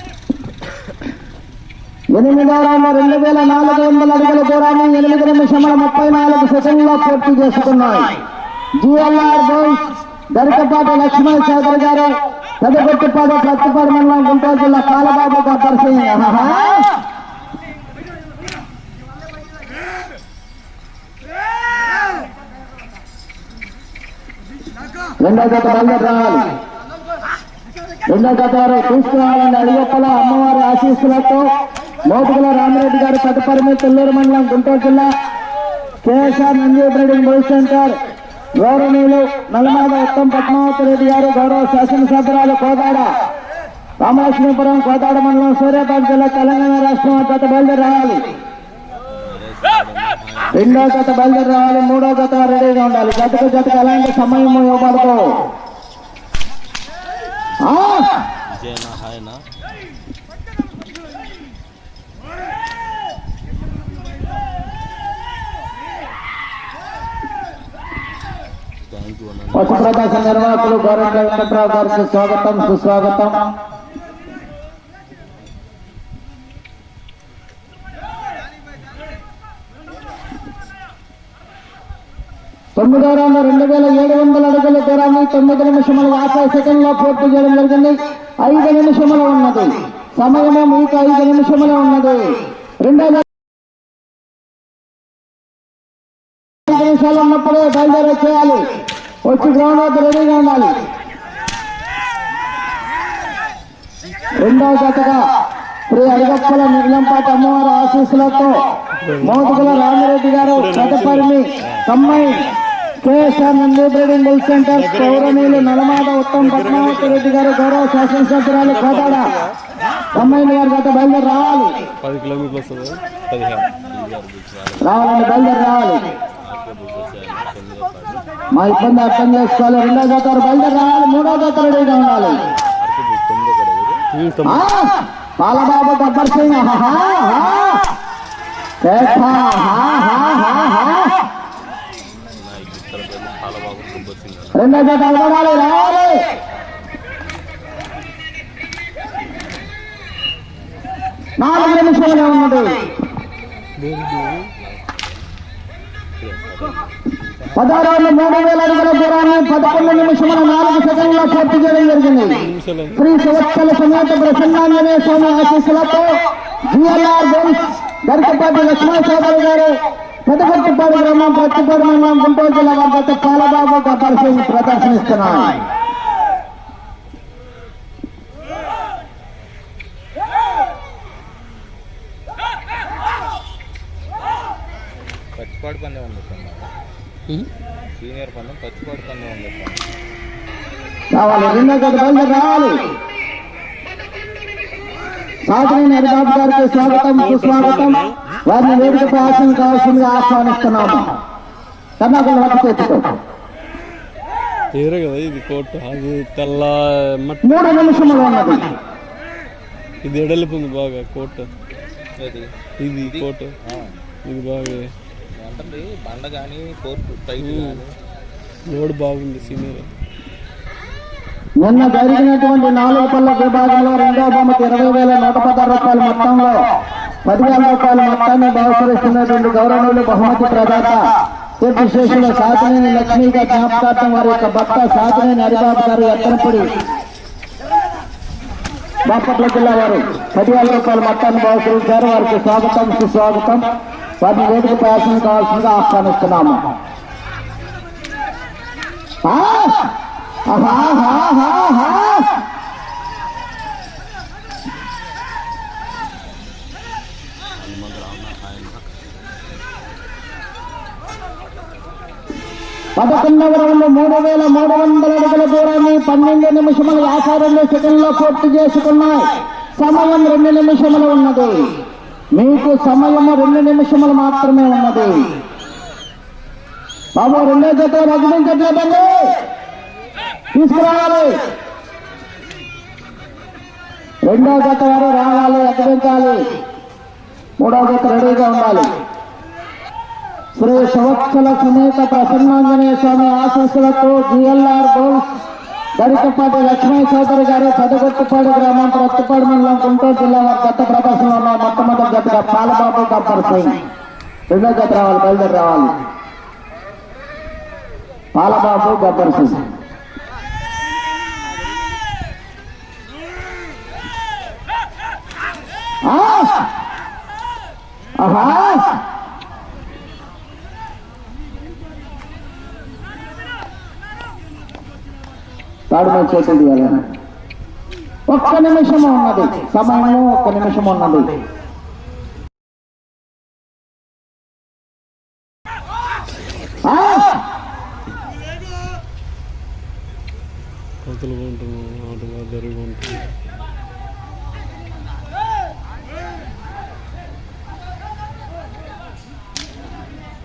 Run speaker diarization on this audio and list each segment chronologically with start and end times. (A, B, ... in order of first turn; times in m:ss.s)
0:02.1-0:08.1 A
0:08.8-0:16.9 A
0:25.2-0:26.5 A
0:28.1-0:31.4 A
0:32.1-0:35.1 A
0:36.0-0:37.9 A
0:38.6-0:43.1 A
0:44.0-0:48.3 A
0:49.1-0:50.8 B
0:50.5-0:55.2 A
0:57.6-0:58.1 A
0:58.5-0:59.4 B
1:08.9-1:09.8 B
1:09.5-1:13.4 A
1:22.8-1:33.2 A
1:36.6-1:38.6 A
1:39.2-1:40.8 A
1:44.4-1:45.2 A
1:45.9-1:48.6 A
1:49.0-1:49.6 C
1:49.2-1:52.5 A
1:50.6-1:51.3 C
1:53.0-1:59.3 A
1:54.8-1:55.5 C
1:56.4-1:57.2 C
2:00.1-2:01.8 A
2:02.0-2:03.0 C
2:03.3-2:05.1 B
2:04.8-2:06.1 A
2:06.4-2:08.2 B
2:08.5-2:12.4 A
2:12.8-2:14.0 B
2:14.1-2:14.6 C
2:14.4-2:17.8 A
2:18.8-2:21.1 A
2:22.3-2:24.6 B
2:24.5-2:26.2 A
2:31.4-2:32.8 A
2:33.8-2:34.5 C
2:34.6-2:35.2 B
2:36.2-2:37.6 B
2:37.5-2:42.4 A
2:42.4-2:43.0 C
2:43.0-2:46.1 A
2:46.7-2:55.6 A
3:05.4-3:06.7 B
3:08.0-3:09.8 B
3:11.1-3:12.8 A
3:15.4-3:21.1 A
3:17.4-3:18.0 C
3:22.0-3:23.1 A
3:24.7-3:27.6 C
3:27.4-3:28.7 A
3:30.0-3:31.5 C
3:32.2-3:34.0 B
3:32.8-3:33.5 C
3:34.2-3:34.9 C
3:35.4-3:37.9 B
3:37.4-3:37.8 C
3:38.7-3:39.8 C
3:41.6-3:46.6 A
3:47.2-3:56.7 A
3:59.0-4:03.6 A
4:04.2-4:06.6 A
4:09.2-4:09.9 A
4:10.5-4:12.4 A
4:17.6-4:18.9 B
4:23.0-4:31.7 A
4:32.3-4:35.3 A
4:37.1-4:39.3 A
4:40.5-4:41.4 A
4:44.2-4:46.5 A
4:47.6-4:48.9 A
4:50.6-4:55.2 A
4:56.0-5:03.8 A
5:04.5-5:06.0 A
5:08.3-5:09.6 A
5:16.0-5:16.6 A
5:18.2-5:18.9 A
5:25.9-5:27.0 A
5:28.3-5:31.3 A
5:36.8-5:37.3 A
5:41.0-5:43.3 C